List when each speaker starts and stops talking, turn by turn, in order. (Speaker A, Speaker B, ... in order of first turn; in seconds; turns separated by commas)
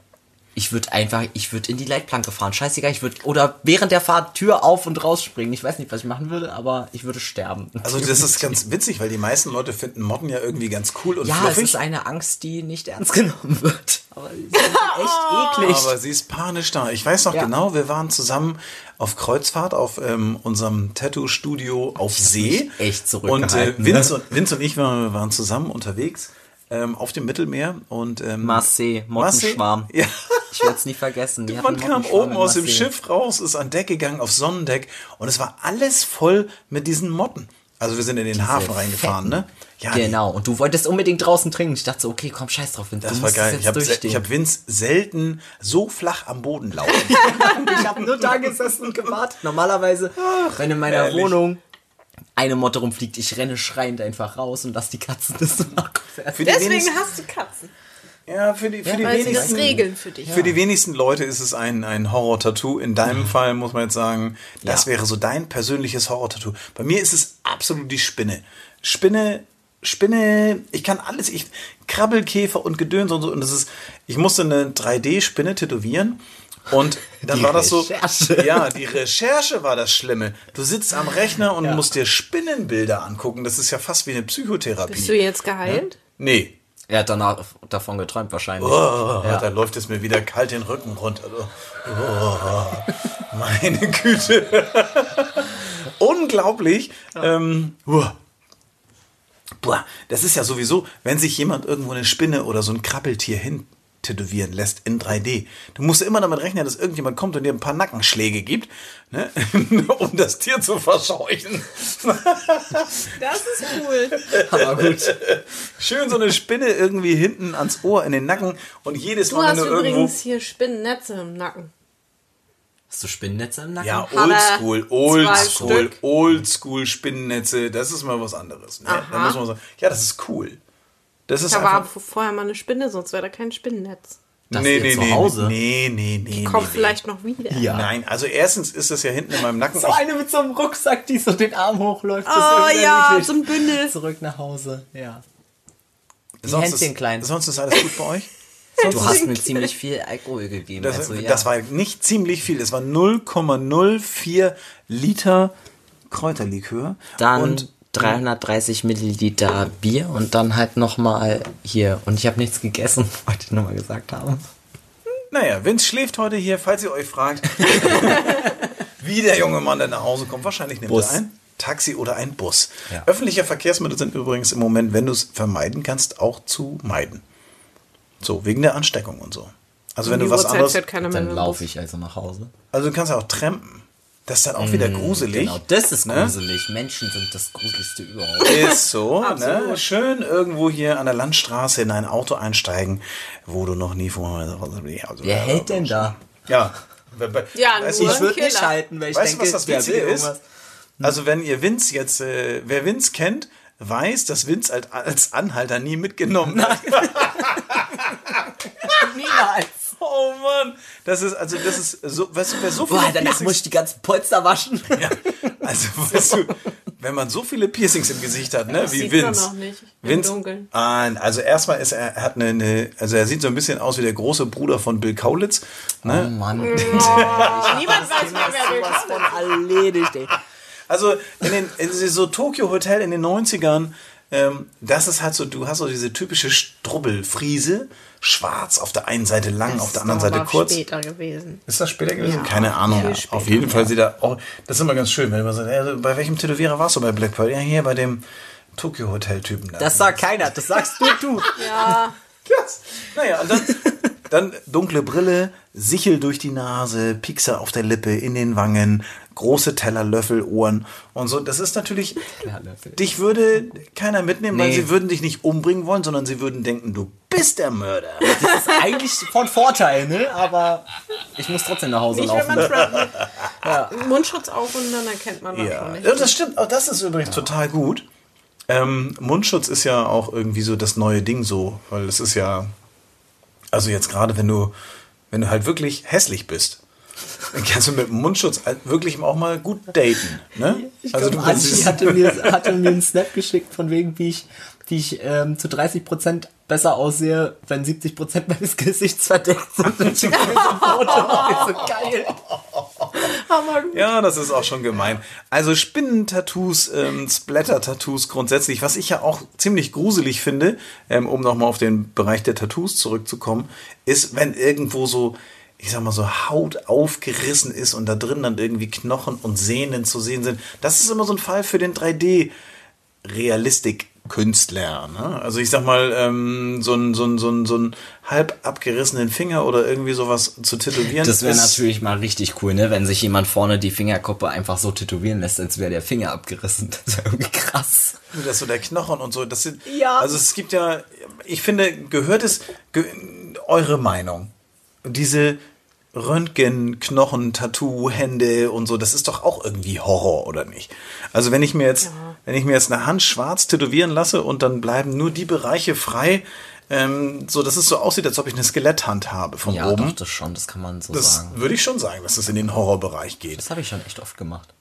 Speaker A: 0.6-8.6, Speaker B: 7.8-11.8, Speaker A: 11.2-15.9, Speaker C: 14.6-15.6, Speaker B: 15.6-30.8, Speaker A: 22.1-24.1, Speaker A: 28.4-29.9, Speaker A: 30.5-32.9, Speaker B: 31.5-40.2, Speaker A: 38.3-39.4, Speaker A: 39.9-44.2, Speaker B: 43.0-49.1, Speaker A: 47.0-51.6, Speaker B: 50.2-51.4, Speaker A: 52.4-56.5, Speaker B: 56.4-56.9, Speaker C: 56.4-57.7, Speaker B: 58.3-86.5, Speaker A: 58.9-60.5, Speaker C: 59.0-60.5, Speaker A: 77.2-78.8, Speaker C: 84.9-86.0, Speaker A: 86.9-89.5, Speaker B: 88.6-98.2, Speaker B: 99.6-113.1, Speaker C: 113.1-114.2, Speaker B: 114.2-120.2, Speaker A: 114.3-115.2, Speaker C: 119.3-121.7, Speaker A: 122.9-124.1, Speaker B: 123.8-130.6, Speaker C: 124.0-126.0, Speaker A: 125.3-125.9, Speaker C: 128.8-129.4, Speaker B: 131.3-131.9, Speaker C: 131.5-134.2, Speaker A: 134.5-135.6, Speaker B: 134.5-137.0, Speaker C: 136.3-137.7, Speaker A: 137.5-137.9, Speaker B: 137.6-140.0, Speaker A: 139.7-145.2, Speaker C: 142.3-143.9, Speaker B: 146.4-148.3, Speaker A: 146.4-147.3, Speaker C: 148.8-149.7, Speaker B: 148.8-149.2, Speaker A: 148.8-151.5, Speaker B: 150.8-155.5, Speaker B: 156.1-158.2, Speaker A: 157.2-164.5, Speaker B: 165.3-177.2, Speaker A: 170.9-171.2, Speaker B: 178.2-180.8, Speaker C: 180.0-181.6, Speaker A: 181.0-182.5, Speaker B: 182.7-186.3, Speaker A: 184.6-188.8, Speaker B: 188.4-198.3, Speaker C: 188.5-189.8, Speaker A: 195.2-196.2, Speaker C: 197.5-198.8, Speaker A: 198.0-200.4, Speaker B: 199.1-200.3, Speaker B: 201.0-209.2, Speaker A: 206.5-207.6, Speaker A: 208.8-209.9, Speaker B: 210.0-213.6, Speaker A: 212.8-215.5, Speaker B: 214.9-219.5, Speaker C: 218.7-220.7, Speaker B: 220.0-228.3, Speaker A: 226.1-230.4, Speaker C: 226.6-229.5, Speaker B: 230.9-240.8, Speaker C: 239.7-241.6, Speaker B: 241.7-248.2, Speaker C: 242.2-243.8, Speaker A: 242.9-243.9, Speaker B: 248.8-250.8, Speaker A: 249.8-251.8, Speaker C: 251.6-252.2, Speaker B: 252.5-262.3, Speaker A: 253.7-254.0, Speaker A: 262.4-263.1, Speaker B: 263.0-268.4, Speaker A: 264.5-264.9, Speaker C: 268.3-268.8, Speaker A: 268.3-273.0, Speaker C: 272.1-276.4, Speaker B: 272.6-273.5, Speaker A: 273.6-274.1, Speaker B: 275.5-278.1, Speaker B: 278.7-282.7, Speaker B: 283.7-284.7, Speaker B: 285.3-286.8, Speaker B: 287.5-293.0, Speaker A: 290.7-302.4, Speaker B: 300.0-303.2, Speaker C: 300.4-300.9, Speaker C: 303.5-304.0, Speaker B: 303.9-322.5, Speaker B: 323.2-331.8, Speaker A: 331.1-338.2, Speaker B: 338.3-344.5, Speaker A: 339.9-340.3, Speaker B: 345.0-345.6, Speaker B: 346.1-360.2, Speaker C: 352.1-352.4, Speaker A: 359.6-361.6, Speaker B: 361.1-363.6, Speaker A: 363.5-364.7